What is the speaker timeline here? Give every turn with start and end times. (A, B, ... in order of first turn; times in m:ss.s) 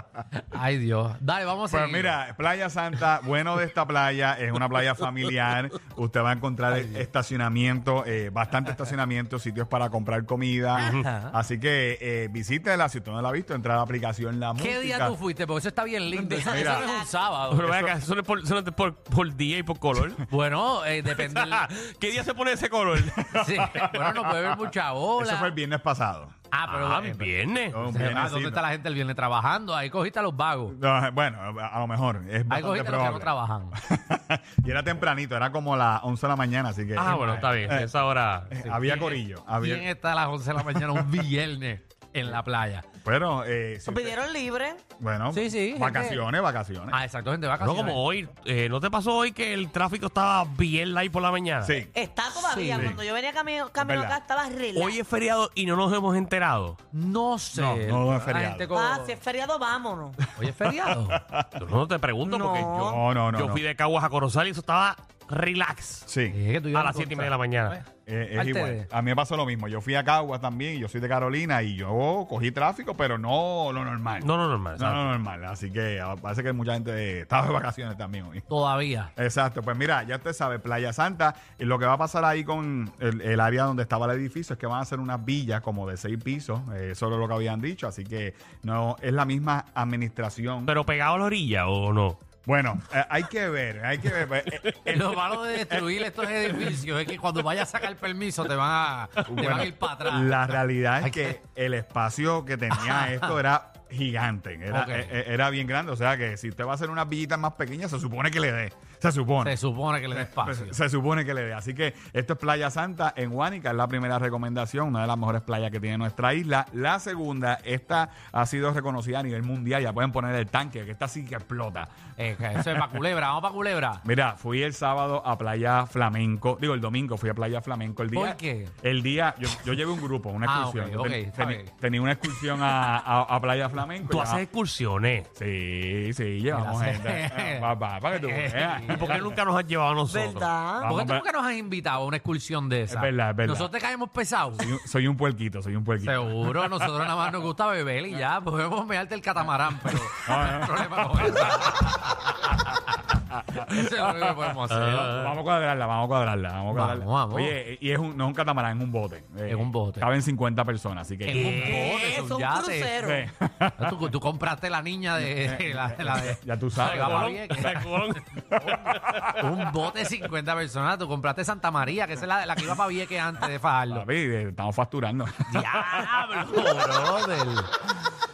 0:00.4-0:02.2 A
0:01.7-0:15.2 B
0:06.7-0:07.1 A
0:10.8-0:11.3 A
0:14.6-0:17.9 A
0:16.3-0:17.1 C
0:16.5-0:16.9 B
0:17.5-0:20.2 D
0:20.3-0:21.7 A
0:21.1-0:23.4 D
0:23.2-0:24.6 B
0:23.3-0:25.5 A
0:25.2-0:26.4 B
0:26.5-0:30.8 A
0:26.7-0:27.8 D
0:27.7-0:28.7 B
0:30.7-0:38.0 B
0:32.5-0:33.8 A
0:37.0-0:38.5 D
0:38.5-0:39.9 B
0:38.6-0:42.8 A
0:40.6-0:41.1 B
0:43.0-0:44.2 B
0:43.9-0:44.8 C
0:45.0-0:47.0 B
0:45.3-0:46.2 A
0:46.9-0:48.0 A
0:47.6-0:51.8 D
0:51.6-0:51.9 B
0:51.9-0:55.0 C
0:52.4-0:53.0 A
0:53.8-0:54.2 B
0:54.7-0:56.8 D
0:56.9-0:59.2 A
0:57.5-0:58.7 B
0:58.7-1:00.2 C
1:00.4-1:01.2 A
1:00.6-1:01.7 B
1:01.6-1:06.1 D
1:02.2-1:03.0 C
1:02.8-1:03.6 B
1:06.1-1:06.4 B
1:06.3-1:08.9 A
1:06.7-1:07.8 D
1:08.1-1:18.5 B
1:14.2-1:15.1 D
1:18.5-1:19.1 A
1:19.2-1:30.8 B
1:30.7-1:32.2 D
1:32.4-1:36.1 B
1:34.9-1:41.4 A
1:39.3-1:49.6 B
1:42.7-1:43.4 A
1:44.7-1:45.2 A
1:49.4-1:50.8 A
1:50.1-2:01.9 B
2:02.2-2:04.0 A
2:02.6-2:02.9 B
2:04.0-2:14.4 B
2:08.1-2:08.7 A
2:10.4-2:11.7 A
2:14.0-2:15.3 D
2:15.4-2:19.4 B
2:16.5-2:19.2 A
2:18.9-2:20.5 D
2:20.1-2:20.9 C
2:20.8-2:21.2 B
2:20.8-2:24.7 A
2:22.9-2:23.7 B
2:24.6-2:26.8 B
2:26.0-2:32.5 A
2:30.2-2:31.8 B
2:33.5-2:35.3 A
2:33.6-2:34.4 B
2:34.7-2:35.3 D
2:35.0-2:41.8 B
2:36.7-2:37.6 A
2:39.5-2:40.1 A
2:41.3-2:43.0 A
2:41.3-2:41.9 D
2:41.7-2:43.3 C
2:43.0-2:44.1 B
2:43.8-2:48.2 A
2:45.2-2:47.3 B
2:46.8-2:49.3 D
2:48.4-2:49.8 B
2:49.4-2:54.1 A
2:53.9-2:56.9 B
2:55.5-2:57.7 A